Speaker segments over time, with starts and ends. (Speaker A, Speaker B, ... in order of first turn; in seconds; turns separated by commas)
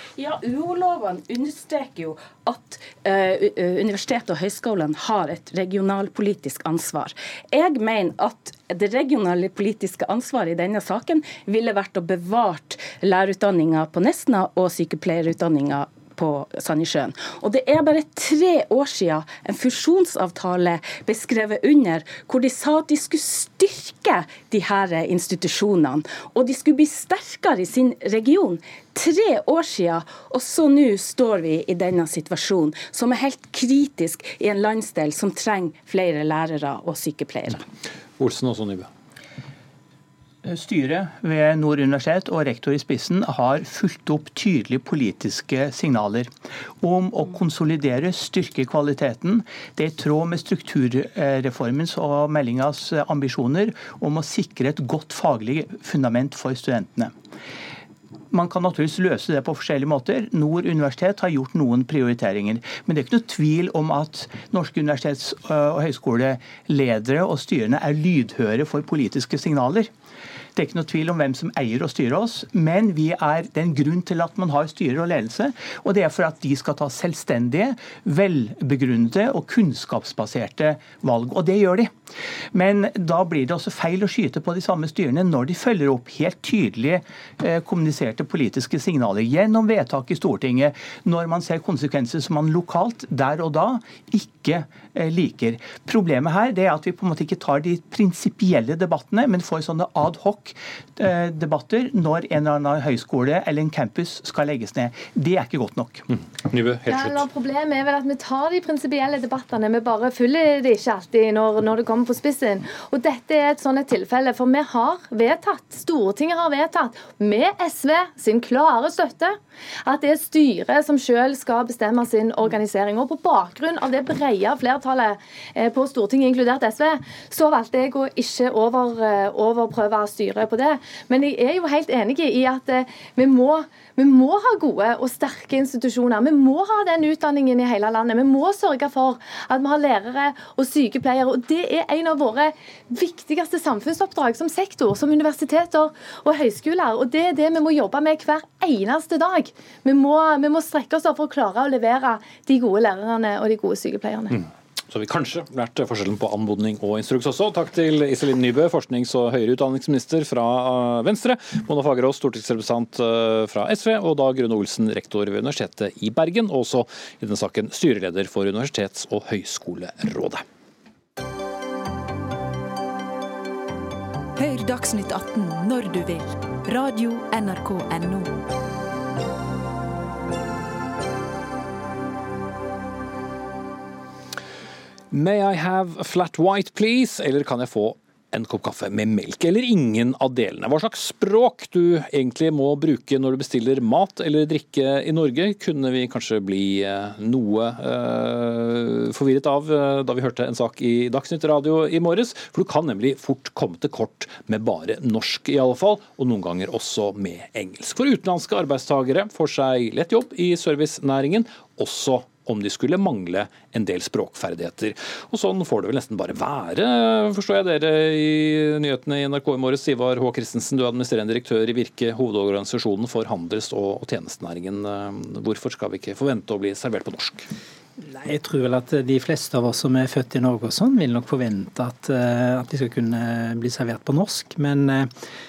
Speaker A: 0.2-37.6, Speaker B: 38.2-38.9, Speaker C: 40.4-46.3, Speaker C: 46.8-57.1, Speaker C: 58.3-69.9, Speaker C: 70.6-81.9, Speaker C: 82.5-106.1, Speaker B: 106.5-107.3, Speaker D: 106.9-154.4, Speaker B: 154.4-170.4, Speaker E: 174.4-178.4, Speaker B: 185.1-227.5, Speaker F: 228.0-235.1